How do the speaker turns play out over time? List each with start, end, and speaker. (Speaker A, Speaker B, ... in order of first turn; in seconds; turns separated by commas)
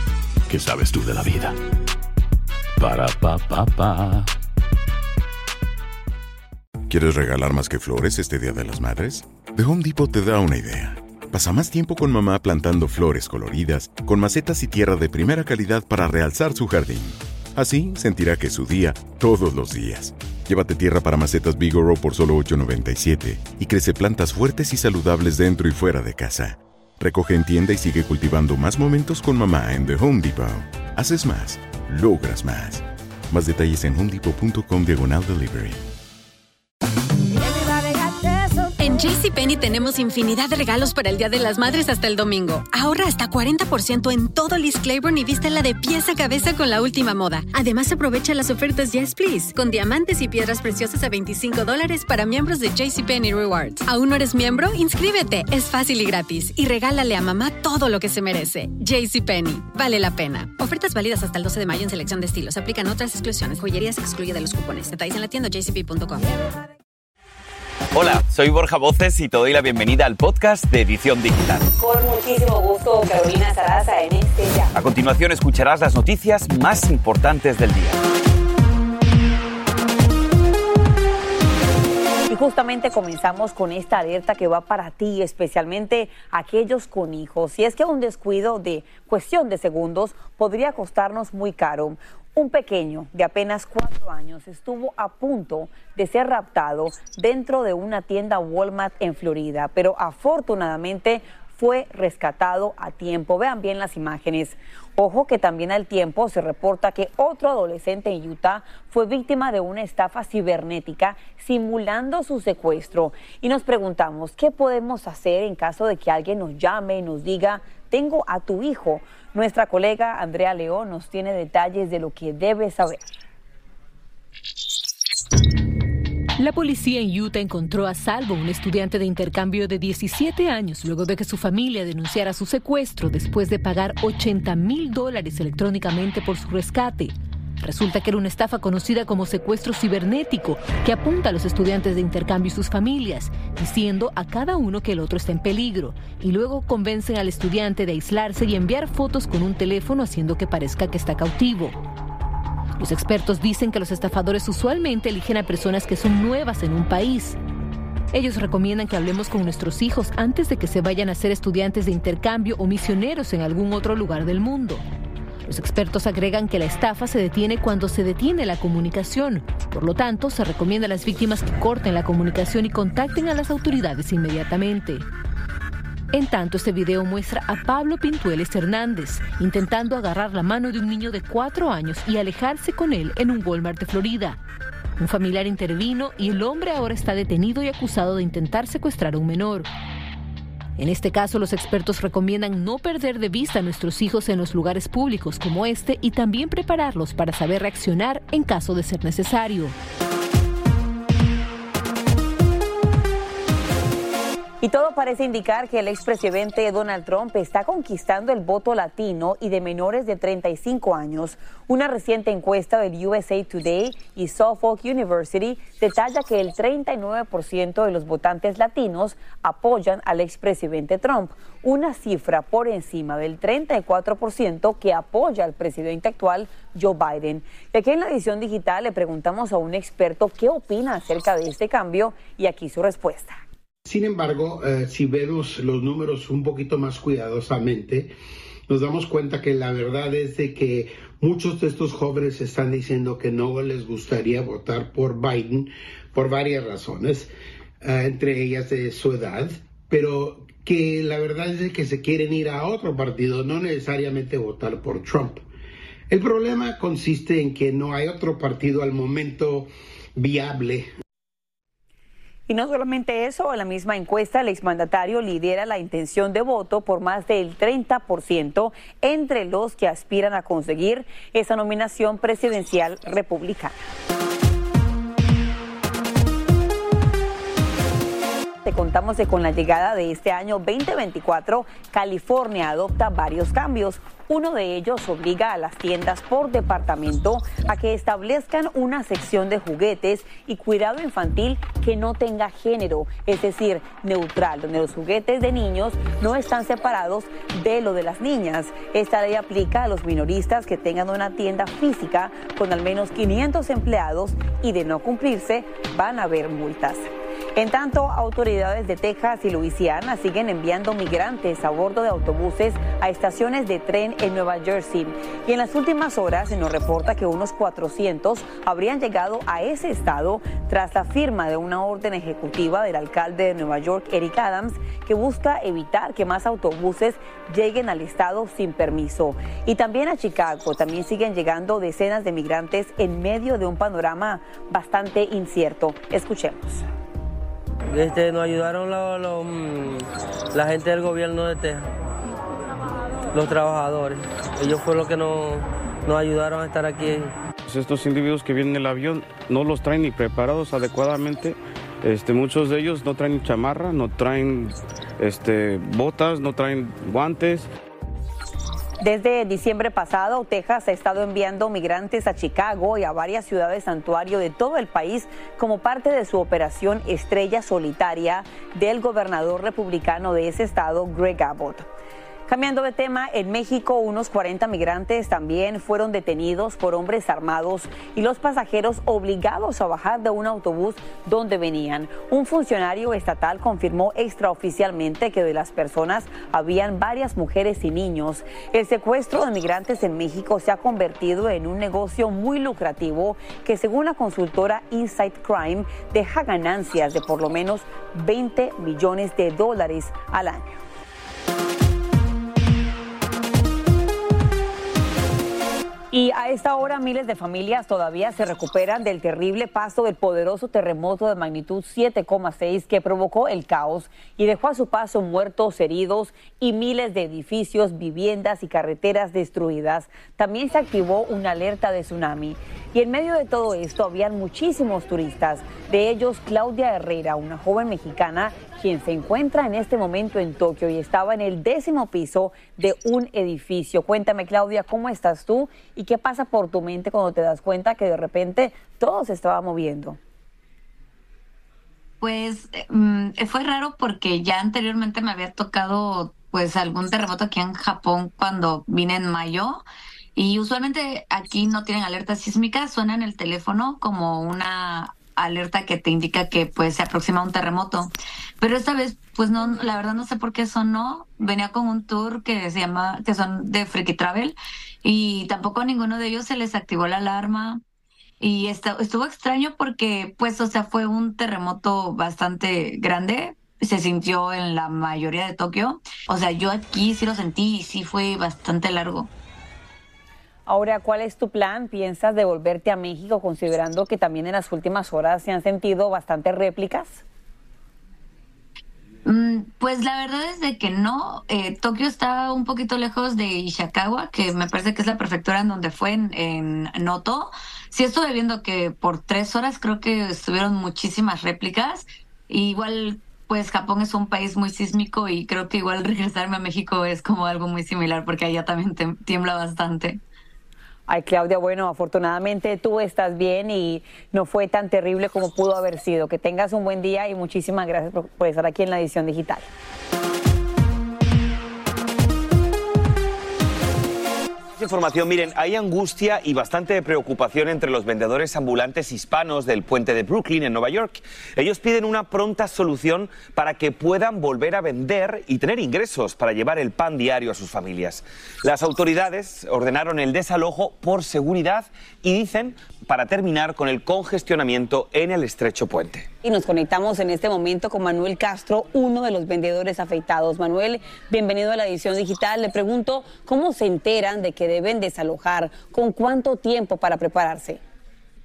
Speaker A: 0.5-1.6, Speaker A: 2.8-4.3, Speaker B: 6.9-35.8, Speaker C: 38.8-66.4, Speaker D: 67.9-71.7, Speaker E: 71.8-74.7, Speaker D: 74.7-78.0, Speaker E: 82.3-123.0, Speaker F: 126.4-151.8, Speaker F: 152.8-157.4, Speaker F: 158.1-164.8, Speaker F: 165.5-175.0, Speaker F: 176.1-184.4, Speaker F: 185.0-189.7, Speaker F: 190.8-199.8, Speaker E: 204.6-233.4, Speaker G: 233.8-238.1, Speaker G: 238.7-247.3, Speaker G: 247.8-255.4, Speaker G: 256.1-260.9, Speaker E: 262.5-273.8, Speaker E: 278.6-336.9, Speaker H: 337.9-341.8, Speaker H: 343.3-347.3, Speaker I: 347.6-357.7, Speaker E: 359.0-371.9, Speaker E: 372.5-400.6, Speaker E: 406.1-440.2, Speaker J: 442.2-449.8, Speaker J: 450.4-467.8, Speaker J: 468.4-479.3, Speaker E: 480.7-487.2, Speaker J: 489.2-510.2, Speaker E: 511.1-519.7, Speaker D: 524.8-546.3, Speaker E: 546.4-557.8